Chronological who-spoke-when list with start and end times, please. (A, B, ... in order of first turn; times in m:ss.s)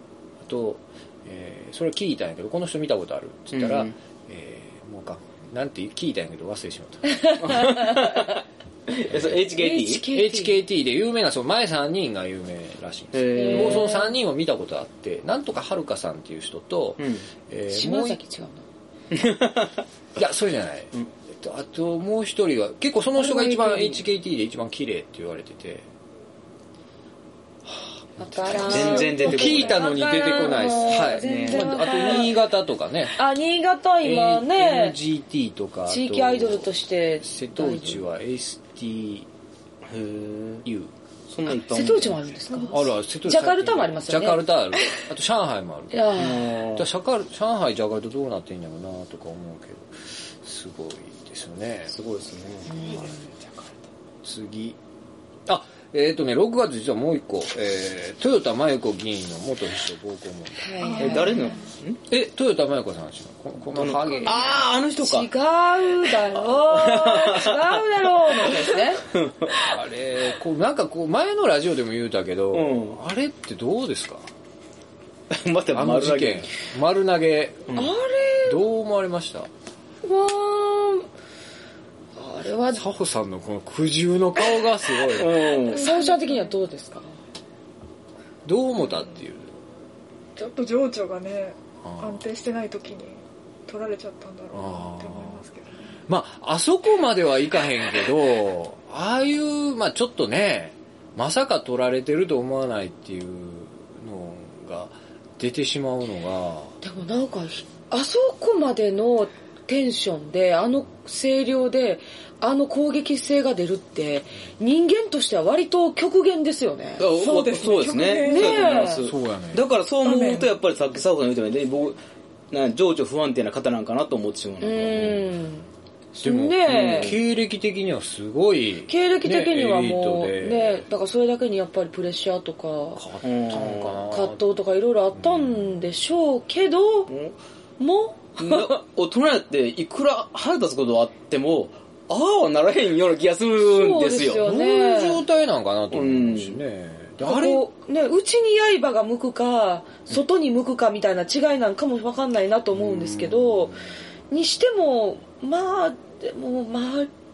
0:00.4-0:07.4 A
0:03.5-0:03.9 B
0:07.1-0:07.8 C
0:07.4-0:10.1 B
0:09.6-0:10.6 C
0:10.0-0:18.2 A
0:13.1-0:14.0 B
0:13.3-0:14.2 C
0:17.0-0:17.3 B
0:17.7-0:18.6 C
0:19.1-0:19.8 B
0:20.2-0:25.9 A
0:23.1-0:24.0 C
0:27.6-0:33.2 A
0:28.2-0:32.4 C
0:28.5-0:29.8 B
0:31.1-0:32.1 B
0:33.2-0:35.0 C
0:34.0-0:39.3 A
0:35.9-0:38.0 C
0:39.8-0:40.6 B
0:40.6-0:40.9 A
0:41.3-0:42.4 B
0:41.4-0:44.5 C
0:42.5-0:42.8 D
0:42.7-0:52.0 A
0:45.9-0:46.6 C
0:46.2-0:46.8 B
0:51.9-0:53.0 B
0:52.6-0:53.2 C
0:52.8-0:53.2 A
0:54.2-0:54.8 A
0:55.4-1:00.9 A
1:00.6-1:01.5 C
1:00.8-1:01.7 D
1:01.0-1:02.0 B
1:02.1-1:04.7 A
1:03.7-1:05.3 B
1:05.0-1:09.0 C
1:06.3-1:07.8 B
1:08.4-1:09.6 B
1:09.6-1:14.3 A
1:12.5-1:13.0 B
1:15.3-1:16.5 B
1:15.7-1:17.9 A
1:17.7-1:18.6 C
1:18.4-1:19.5 A
1:20.0-1:21.1 C
1:22.2-1:22.8 C
1:22.7-1:25.5 A
1:25.1-1:25.9 B
1:25.7-1:27.1 C
1:25.8-1:26.5 D
1:28.4-1:29.6 A
1:30.4-1:36.0 D
1:31.8-1:32.2 A
1:34.5-1:35.4 A
1:36.1-1:46.8 A
1:46.8-1:57.1 C
1:57.0-2:02.0 B
1:57.1-1:58.7 D
1:58.2-1:59.0 C
1:58.9-1:59.7 A
2:00.0-2:00.5 D
2:02.5-2:05.3 B
2:04.6-2:07.1 C
2:06.2-2:10.8 A
2:06.6-2:07.2 B
2:08.9-2:13.0 C
2:12.9-2:14.4 A
2:13.2-2:14.1 B
2:14.1-2:17.1 C
2:15.1-2:15.9 A
2:17.1-2:17.4 B
2:17.8-2:18.8 C
2:18.4-2:24.5 B
2:23.6-2:25.2 C
2:24.4-2:27.6 A
2:25.9-2:26.6 B
2:27.2-2:33.7 C
2:32.9-2:33.4 B
2:34.3-2:37.1 C